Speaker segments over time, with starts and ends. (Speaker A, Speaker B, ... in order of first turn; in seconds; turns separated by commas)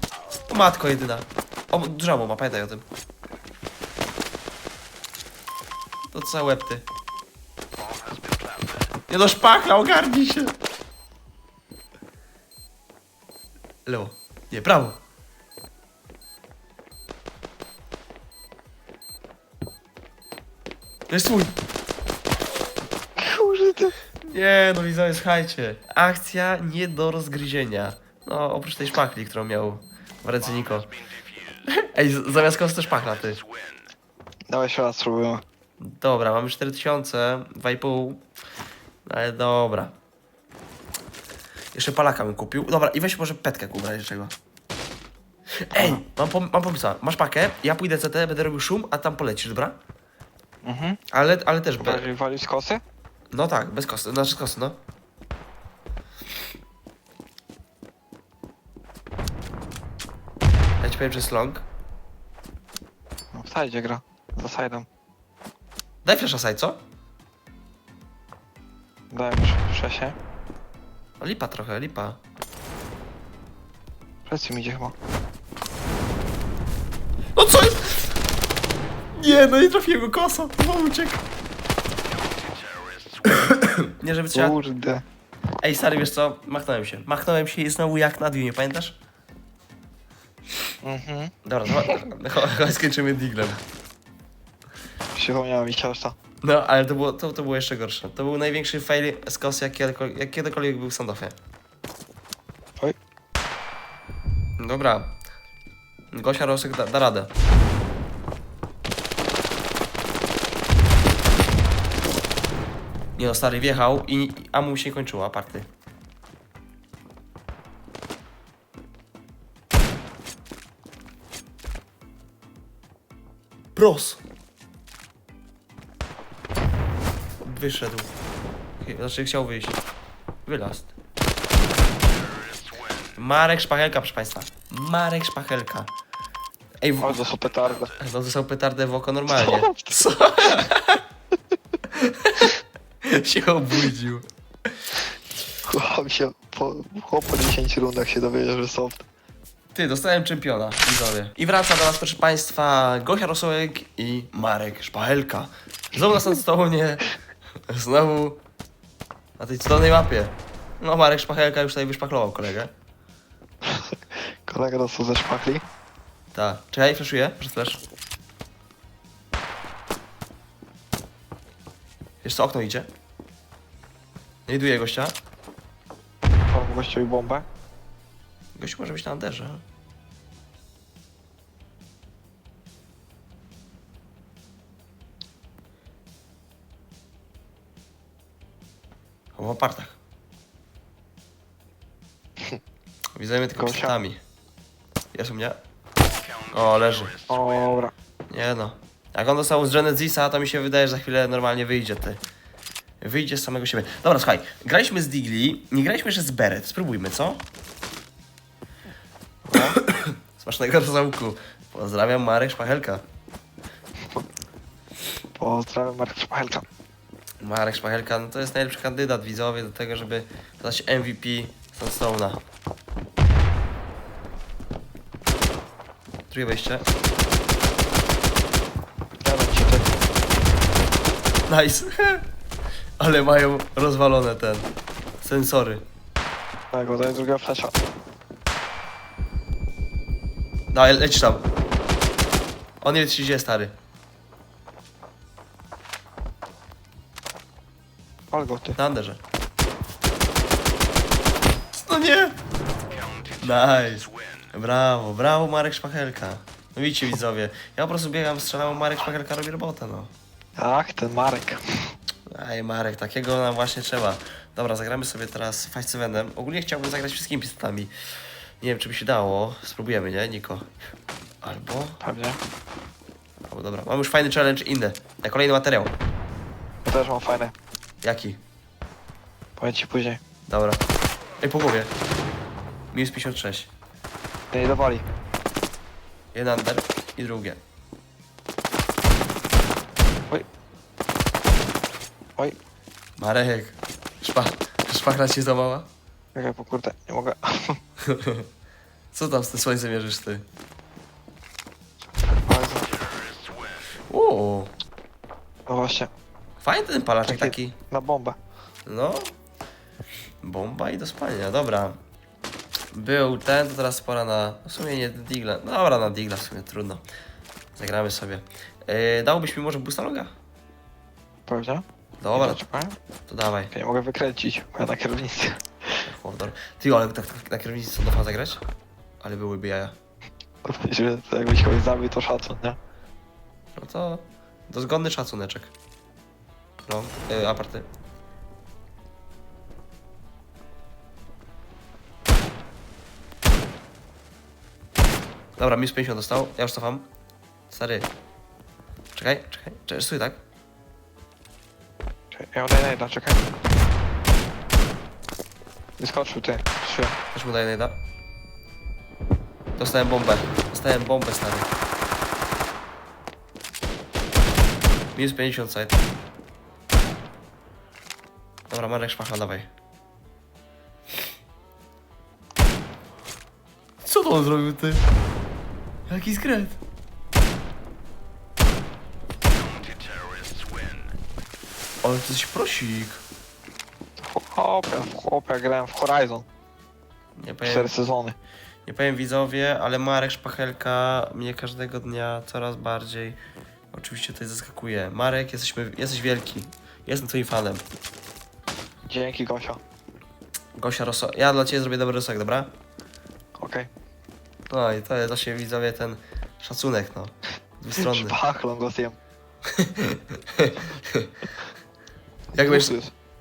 Speaker A: 0.5-2.9, Speaker A: 6.1-6.8, Speaker A: 9.1-10.6, Speaker A: 13.9-15.0, Speaker A: 21.1-21.6, Speaker B: 23.2-23.9, Speaker A: 24.2-31.0, Speaker A: 31.7-33.4, Speaker B: 34.5-35.4, Speaker A: 35.8-38.2, Speaker A: 39.1-40.0, Speaker A: 41.7-44.3, Speaker A: 45.5-49.8, Speaker B: 50.6-51.0, Speaker A: 51.1-52.1, Speaker B: 51.8-52.8, Speaker A: 53.3-54.8, Speaker A: 60.8-61.6, Speaker B: 63.3-64.9, Speaker A: 66.0-66.8, Speaker B: 69.1-70.2, Speaker A: 71.2-72.2, Speaker B: 74.3-75.0, Speaker A: 77.3-78.1, Speaker A: 79.1-81.2, Speaker A: 83.2-84.6, Speaker B: 84.3-85.0, Speaker A: 85.6-89.0, Speaker B: 90.8-92.0, Speaker A: 91.5-93.6, Speaker B: 95.2-96.2, Speaker A: 96.4-101.4, Speaker A: 104.6-105.2, Speaker A: 106.1-107.3, Speaker A: 113.2-115.7, Speaker A: 123.8-124.2, Speaker A: 127.4-128.1, Speaker A: 128.8-129.8, Speaker A: 130.5-130.9, Speaker A: 133.2-135.9, Speaker A: 136.8-137.3, Speaker B: 137.0-137.9, Speaker A: 137.9-141.0, Speaker B: 139.3-139.9, Speaker A: 141.9-142.5, Speaker A: 143.1-144.2, Speaker B: 145.7-149.1, Speaker A: 149.7-157.1, Speaker A: 157.7-158.4, Speaker A: 159.4-162.7, Speaker B: 163.6-165.7, Speaker A: 166.3-167.8, Speaker A: 172.2-172.9, Speaker A: 174.5-175.2, Speaker B: 176.5-177.5, Speaker A: 178.6-179.6, Speaker A: 189.4-190.0, Speaker A: 193.2-194.2, Speaker B: 193.6-194.0, Speaker A: 195.1-195.6, Speaker A: 196.5-197.2, Speaker B: 197.3-197.9, Speaker A: 198.3-202.2, Speaker A: 203.0-207.4, Speaker B: 209.4-209.8, Speaker A: 209.6-213.0, Speaker B: 215.4-216.7, Speaker A: 217.4-222.4, Speaker A: 226.3-226.8, Speaker B: 229.2-230.1, Speaker A: 231.5-232.2, Speaker A: 233.0-234.7, Speaker A: 235.2-235.8, Speaker B: 236.7-237.8, Speaker A: 240.7-241.4, Speaker A: 242.8-243.7, Speaker B: 248.3-248.8, Speaker A: 248.8-249.2, Speaker A: 251.7-252.4, Speaker A: 253.4-260.1, Speaker B: 260.6-262.0, Speaker A: 262.3-267.9, Speaker A: 268.6-270.7, Speaker A: 271.4-272.0, Speaker B: 272.0-272.4, Speaker A: 273.5-275.9, Speaker B: 276.9-277.5, Speaker A: 278.0-278.4, Speaker B: 279.6-280.2, Speaker A: 280.5-280.8, Speaker A: 281.4-281.9, Speaker A: 282.9-283.7, Speaker B: 284.5-285.1, Speaker A: 286.3-287.6, Speaker A: 293.2-295.9, Speaker B: 296.4-297.8, Speaker A: 298.0-298.5, Speaker A: 299.1-300.4, Speaker B: 302.5-302.9, Speaker A: 304.1-304.7, Speaker B: 305.7-306.1, Speaker A: 306.6-307.7, Speaker B: 307.2-308.4, Speaker A: 308.9-309.3, Speaker A: 310.4-312.0, Speaker A: 312.9-317.0, Speaker A: 317.8-320.3, Speaker B: 321.5-321.9, Speaker A: 322.2-322.6, Speaker B: 322.4-323.0, Speaker A: 323.3-323.7, Speaker B: 323.7-326.1, Speaker A: 326.1-328.6, Speaker A: 329.2-330.0, Speaker B: 330.6-332.8, Speaker A: 333.8-335.7, Speaker A: 336.8-337.9, Speaker A: 345.6-347.1, Speaker A: 347.7-348.1, Speaker A: 349.1-350.4, Speaker B: 352.3-353.4, Speaker B: 356.0-357.2, Speaker A: 357.3-358.0, Speaker A: 359.8-361.7, Speaker A: 365.2-366.0, Speaker A: 368.7-369.7, Speaker A: 374.0-375.0, Speaker A: 376.1-376.8, Speaker A: 382.0-383.2, Speaker B: 384.2-386.5, Speaker A: 387.4-387.9, Speaker B: 387.6-388.4, Speaker A: 388.9-393.4, Speaker A: 393.9-397.8, Speaker B: 399.1-399.8, Speaker A: 400.8-402.7, Speaker B: 403.6-403.9, Speaker A: 404.7-408.4, Speaker B: 408.0-409.2, Speaker A: 409.7-411.3, Speaker A: 412.5-412.9, Speaker B: 412.6-413.1